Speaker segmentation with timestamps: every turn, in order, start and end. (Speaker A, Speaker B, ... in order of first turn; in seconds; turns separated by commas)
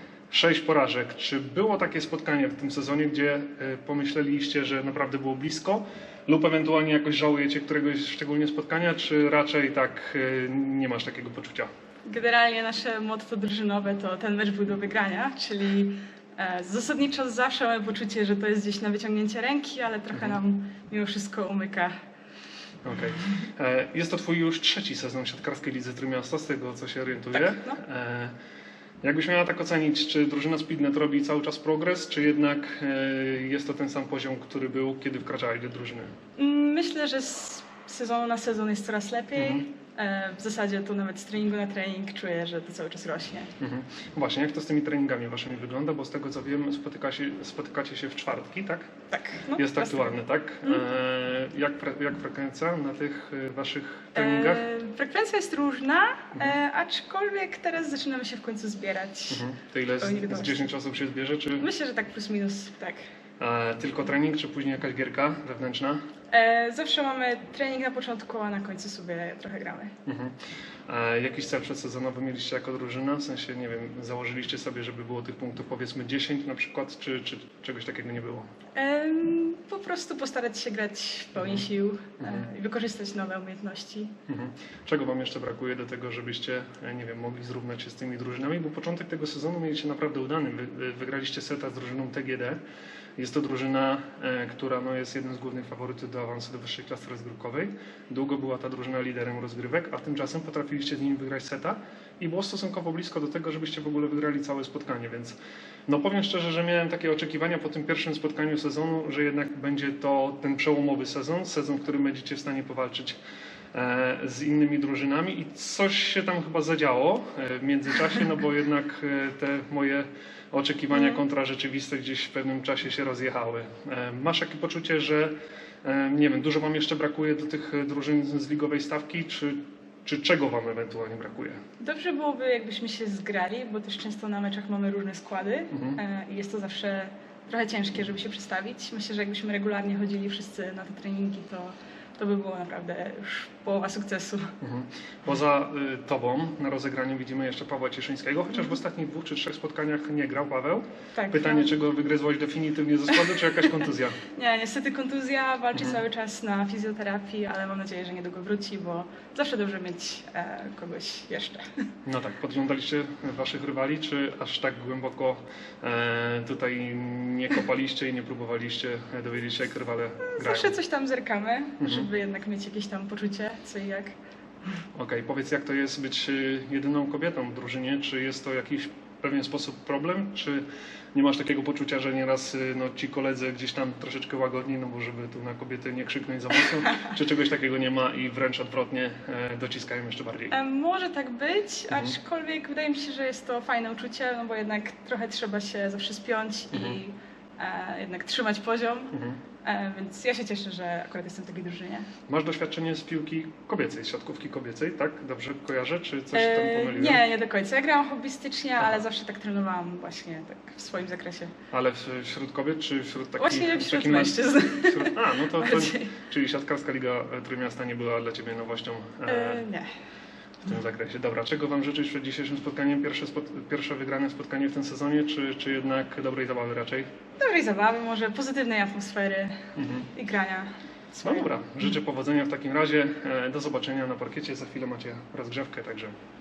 Speaker A: 0.3-11.7, Speaker B: 12.1-21.9, Speaker A: 20.1-20.4, Speaker A: 22.8-28.3, Speaker B: 27.3-27.8, Speaker A: 29.0-36.1, Speaker B: 36.4-43.5, Speaker A: 39.4-39.6, Speaker A: 43.6-48.9, Speaker B: 49.1-50.9, Speaker A: 49.5-54.7, Speaker B: 54.1-59.4, Speaker A: 59.3-61.7, Speaker B: 60.0-60.7, Speaker B: 61.6-63.0, Speaker A: 63.4-66.0, Speaker B: 66.3-69.9, Speaker A: 70.1-70.3, Speaker A: 70.9-78.5, Speaker B: 78.8-84.1, Speaker A: 81.4-81.7, Speaker A: 82.2-82.5, Speaker A: 84.3-92.6, Speaker A: 93.2-113.2, Speaker A: 113.7-125.3, Speaker B: 120.9-121.2, Speaker A: 125.8-131.6, Speaker B: 131.8-144.5, Speaker A: 135.7-136.0, Speaker A: 144.6-154.2, Speaker B: 151.1-151.7, Speaker B: 154.3-161.8, Speaker A: 155.7-156.0, Speaker A: 162.0-170.8, Speaker B: 170.3-174.1, Speaker A: 171.8-172.1, Speaker A: 174.9-190.6, Speaker B: 190.5-202.1, Speaker A: 191.9-192.1, Speaker A: 196.7-197.0, Speaker A: 199.1-199.4, Speaker A: 202.3-207.2, Speaker B: 206.3-211.5, Speaker A: 211.7-219.7, Speaker B: 213.4-216.1, Speaker B: 219.2-219.9, Speaker A: 220.6-227.1, Speaker B: 227.4-229.6, Speaker A: 229.8-230.1, Speaker B: 230.1-231.5, Speaker A: 231.2-236.2